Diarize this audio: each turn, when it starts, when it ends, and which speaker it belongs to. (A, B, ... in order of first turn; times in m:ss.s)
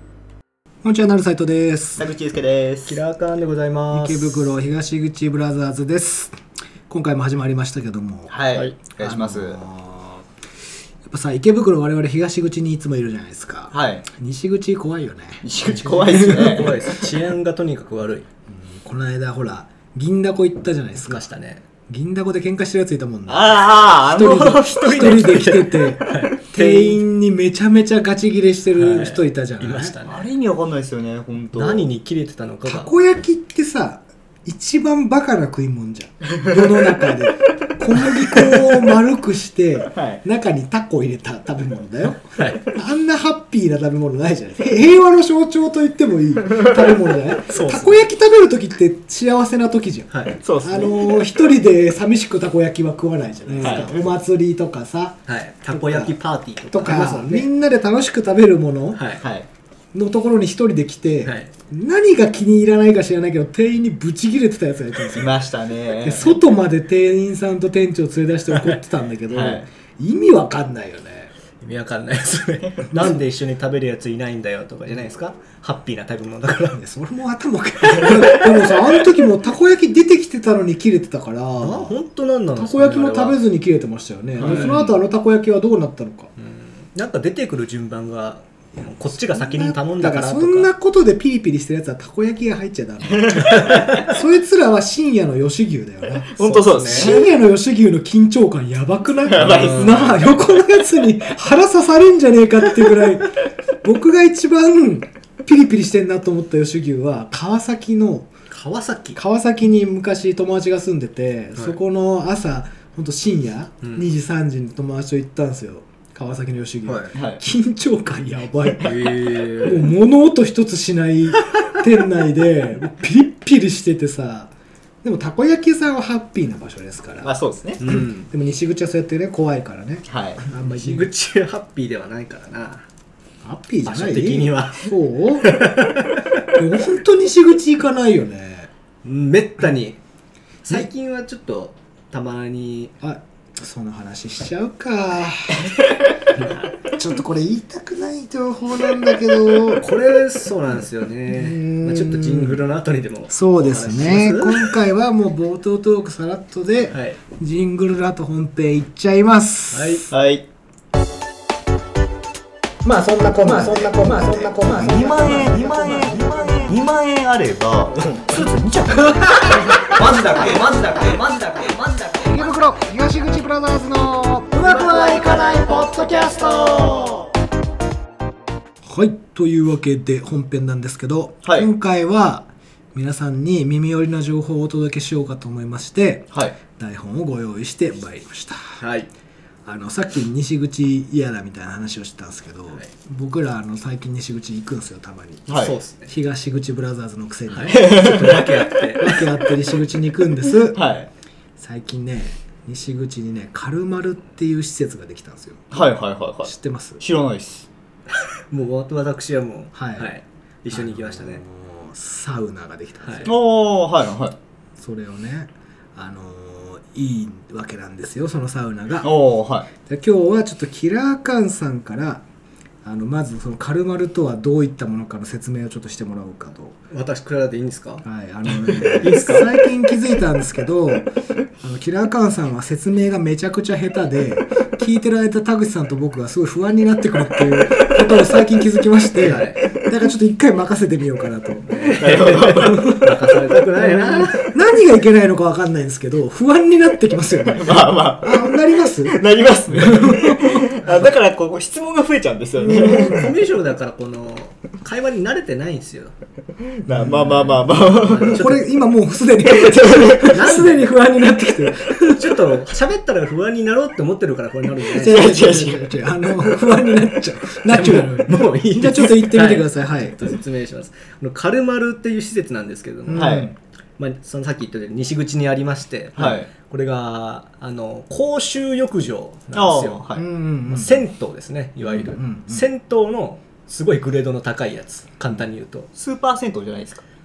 0:00.8-0:02.0 A
0:02.0-0:03.0 B
0:02.8-0:04.5 C
0:03.9-0:06.4 A
0:06.9-0:08.4 A
0:08.3-0:09.6 B
0:08.9-0:10.2 A
0:11.0-0:16.7 A
0:13.7-0:14.0 B
0:15.4-0:16.8 B
0:15.7-0:18.2 C
0:18.5-0:21.3 A
0:21.0-0:21.6 C
0:21.9-0:29.9 A
0:23.3-0:25.5 B
0:24.5-0:27.0 C
0:28.8-0:30.2 C
0:30.0-0:31.9 B
0:31.5-0:32.9 C
0:32.6-0:56.1 A
0:39.9-0:40.2 B
0:42.4-0:42.6 C
0:46.5-0:47.0 B
0:47.5-0:48.0 C
0:50.1-0:50.3 C
0:50.4-0:51.2 B
0:53.5-0:54.1 C
0:53.6-0:54.0 B
0:55.3-0:57.5 C
0:56.7-0:59.0 A
0:58.9-0:59.2 C
0:59.2-0:59.5 B
0:59.9-1:05.4 A
1:01.2-1:01.5 C
1:05.1-1:06.4 B
1:06.0-1:11.3 A
1:09.3-1:09.6 B
1:11.6-1:16.8 C
1:12.9-1:13.2 A
1:16.7-1:21.9 A
1:18.0-1:18.4 C
1:21.6-1:23.4 C
1:22.6-1:26.3 A
1:24.4-1:24.9 C
1:24.4-1:24.8 B
1:26.4-1:30.7 C
1:29.3-1:48.3 A
1:33.1-1:34.0 B
1:33.4-1:34.1 C
1:36.3-1:37.3 B
1:36.4-1:37.2 C
1:39.3-1:40.2 B
1:39.4-1:40.3 C
1:48.5-1:49.2 C
1:49.2-2:04.5 A
1:56.8-1:57.1 C
1:57.1-1:57.4 B
1:58.8-1:59.9 C
2:05.0-2:11.1 A
2:07.2-2:07.8 B
2:07.8-2:08.3 C
2:10.1-2:10.4 B
2:10.7-2:12.8 C
2:13.4-2:15.6 A
2:13.8-2:14.9 C
2:15.4-2:16.2 C
2:16.5-2:18.7 A
2:19.0-2:20.0 C
2:20.6-2:22.9 C
2:23.0-2:25.7 A
2:25.8-2:26.1 B
2:26.4-2:26.7 C
2:26.9-2:29.8 A
2:29.7-2:34.7 C
2:31.3-2:32.6 A
2:33.3-2:40.0 A
2:36.9-2:37.2 C
2:39.7-2:40.0 C
2:40.1-2:40.4 B
2:42.8-2:46.6 A
2:44.1-2:44.5 C
2:44.7-2:49.7 B
2:48.9-2:50.5 A
2:49.8-2:52.5 C
2:52.2-2:57.2 A
2:54.6-2:55.1 C
2:58.8-3:08.8 A
3:01.4-3:01.7 B
3:06.3-3:06.6 B
3:08.8-3:09.1 C
3:09.6-3:18.4 A
3:15.5-3:15.7 B
3:15.5-3:16.1 C
3:17.5-3:19.2 C
3:17.7-3:18.4 B
3:19.0-3:20.8 A
3:20.7-3:21.1 B
3:21.6-3:25.8 A
3:25.7-3:27.7 B
3:26.4-3:27.0 A
3:28.5-3:31.4 C
3:29.7-3:30.1 A
3:30.7-3:33.3 A
3:33.2-3:34.3 B
3:34.8-3:39.1 A
3:39.0-3:39.7 B
3:39.8-3:42.2 A
3:42.8-3:46.8 A
3:46.9-3:49.5 C
3:48.0-4:01.9 A
3:59.2-3:59.6 C
4:01.6-4:04.5 C
4:02.0-4:03.0 B
4:02.4-4:03.2 A
4:03.8-4:09.2 A
4:07.5-4:13.3 B
4:09.7-4:10.8 A
4:10.8-4:11.1 C
4:12.6-4:16.1 C
4:12.6-4:13.3 A
4:16.8-4:17.7 A
4:16.8-4:18.6 B
4:17.7-4:18.6 C
4:18.2-4:22.4 A
4:19.4-4:20.6 B
4:20.3-4:20.9 C
4:22.0-4:25.5 C
4:24.9-4:30.4 A
4:24.9-4:25.9 B
4:27.6-4:33.4 C
4:33.1-4:33.5 A
4:33.1-4:33.5 B
4:34.0-4:40.1 C
4:36.2-4:36.5 B
4:39.5-4:40.2 B
4:40.1-4:41.0 A
4:40.7-4:45.9 C
4:41.9-4:42.6 A
4:46.0-4:47.0 B